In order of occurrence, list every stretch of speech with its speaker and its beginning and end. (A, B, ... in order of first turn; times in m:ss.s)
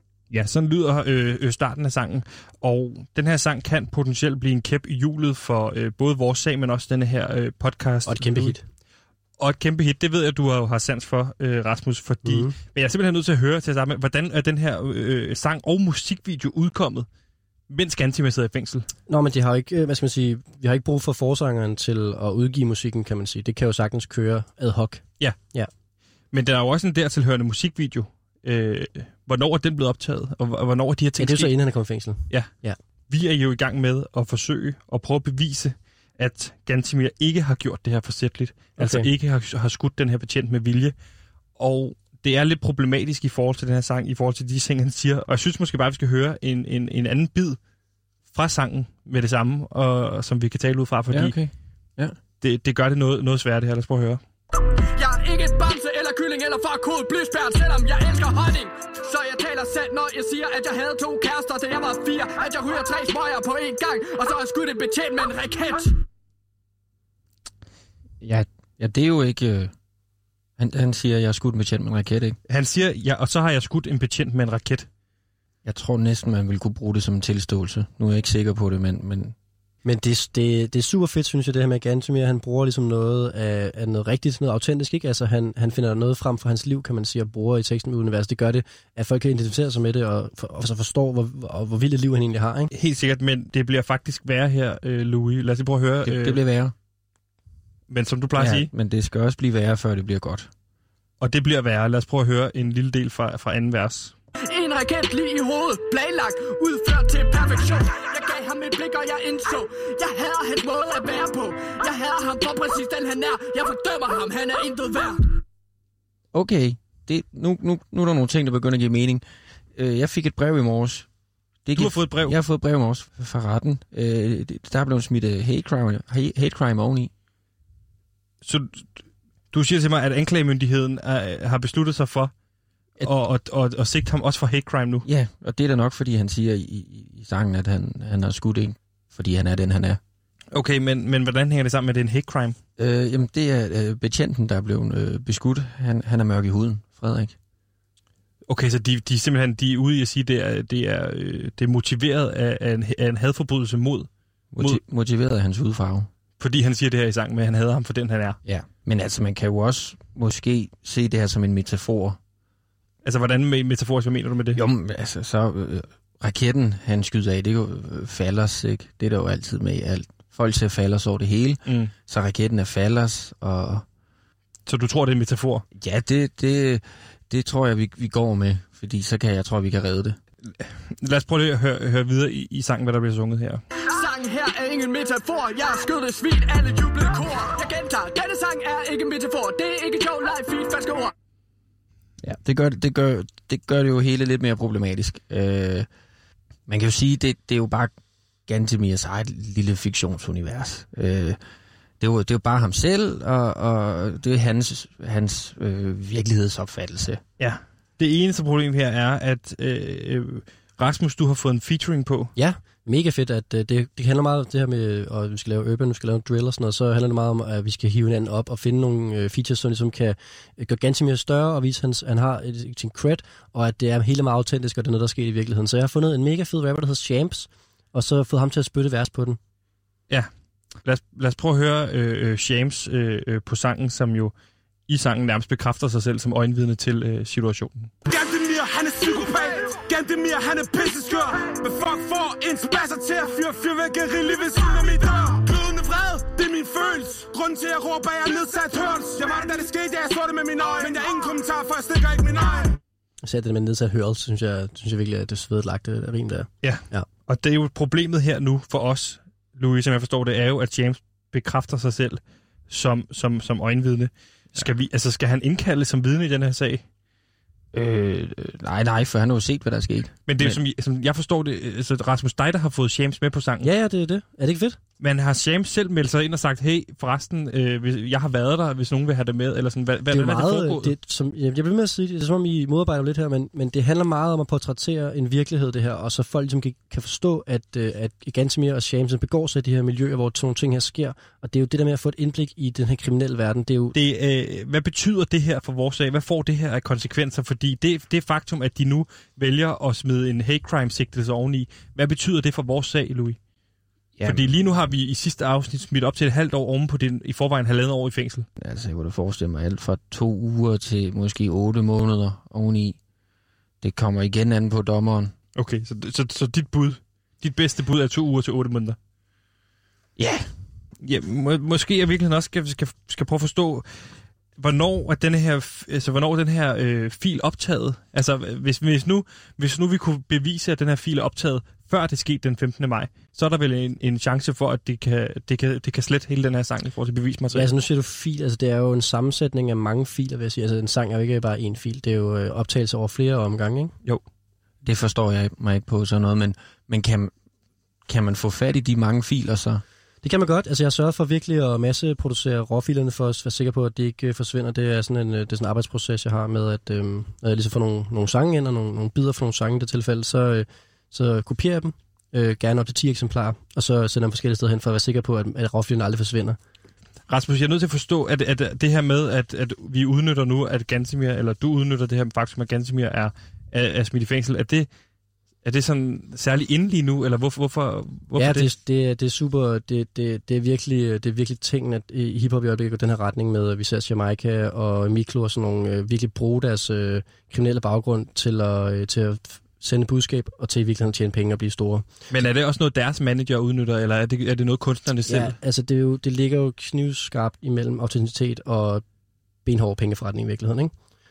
0:00.3-0:08.6 A
0:08.1-0:08.6 B
0:09.4-0:17.1 A
0:12.2-0:12.6 B
0:17.7-0:18.9 A
0:19.1-0:25.7 B
0:26.3-0:31.5 A
0:31.2-0:32.8 B
0:33.1-0:40.9 A
0:38.8-0:39.1 B
0:41.6-0:47.6 A
0:48.3-0:51.4 A
0:51.1-0:52.2 C
0:52.4-0:54.2 A
0:55.0-1:05.9 D
1:08.2-1:09.7 C
1:10.6-1:12.4 C
1:12.5-1:14.9 A
1:15.6-1:19.4 C
1:19.8-1:32.7 B
1:32.7-1:36.4 A
1:36.0-1:36.7 C
1:37.9-1:38.7 A
1:38.4-1:40.5 C
1:41.2-1:44.1 A
1:44.4-1:55.3 D
1:56.3-2:01.1 C
2:01.6-2:07.1 C
2:01.8-2:02.4 A
2:08.4-2:08.9 A
2:09.5-2:12.3 A
2:13.0-2:15.0 A
2:15.0-2:20.0 C
2:20.5-2:22.6 A
2:22.8-2:27.4 C
2:28.5-2:34.8 A
2:34.5-2:36.1 C
2:36.4-2:38.4 A
2:38.5-2:42.2 C
2:43.0-2:44.6 A
2:44.5-2:53.8 C
2:51.7-2:51.9 A
2:54.7-2:55.6 A
2:55.8-3:00.2 C
3:00.6-3:03.6 A
3:03.9-3:11.1 D
3:12.2-3:15.9 C
3:16.7-3:17.9 C
3:18.5-3:21.4 C
3:22.0-3:27.2 C
3:27.4-3:32.3 A
3:32.4-3:49.4 B
3:50.8-3:54.3 A
3:54.9-3:57.9 A
3:58.1-4:12.8 E
4:13.2-4:17.1 B
4:16.6-4:26.8 A
4:27.7-4:30.6 C
4:30.3-4:33.7 A
4:33.6-4:34.8 B
4:35.0-4:40.9 A
4:40.1-4:54.0 B
4:53.9-5:03.4 A
5:04.2-5:04.5 C
5:04.2-5:08.5 A
5:08.6-5:13.0 C
5:13.8-5:15.3 C
5:15.6-5:19.0 A
5:20.2-5:20.5 C
5:21.0-5:23.9 A
5:24.6-5:37.7 A
5:37.5-5:43.9 B
5:44.8-5:47.3 C
5:48.1-5:49.8 C
5:50.2-6:06.6 B
6:07.3-6:14.9 A
6:15.6-6:18.7 A
6:18.4-6:32.1 B
6:32.3-6:35.6 A
6:35.3-6:39.0 B
6:39.6-6:40.9 B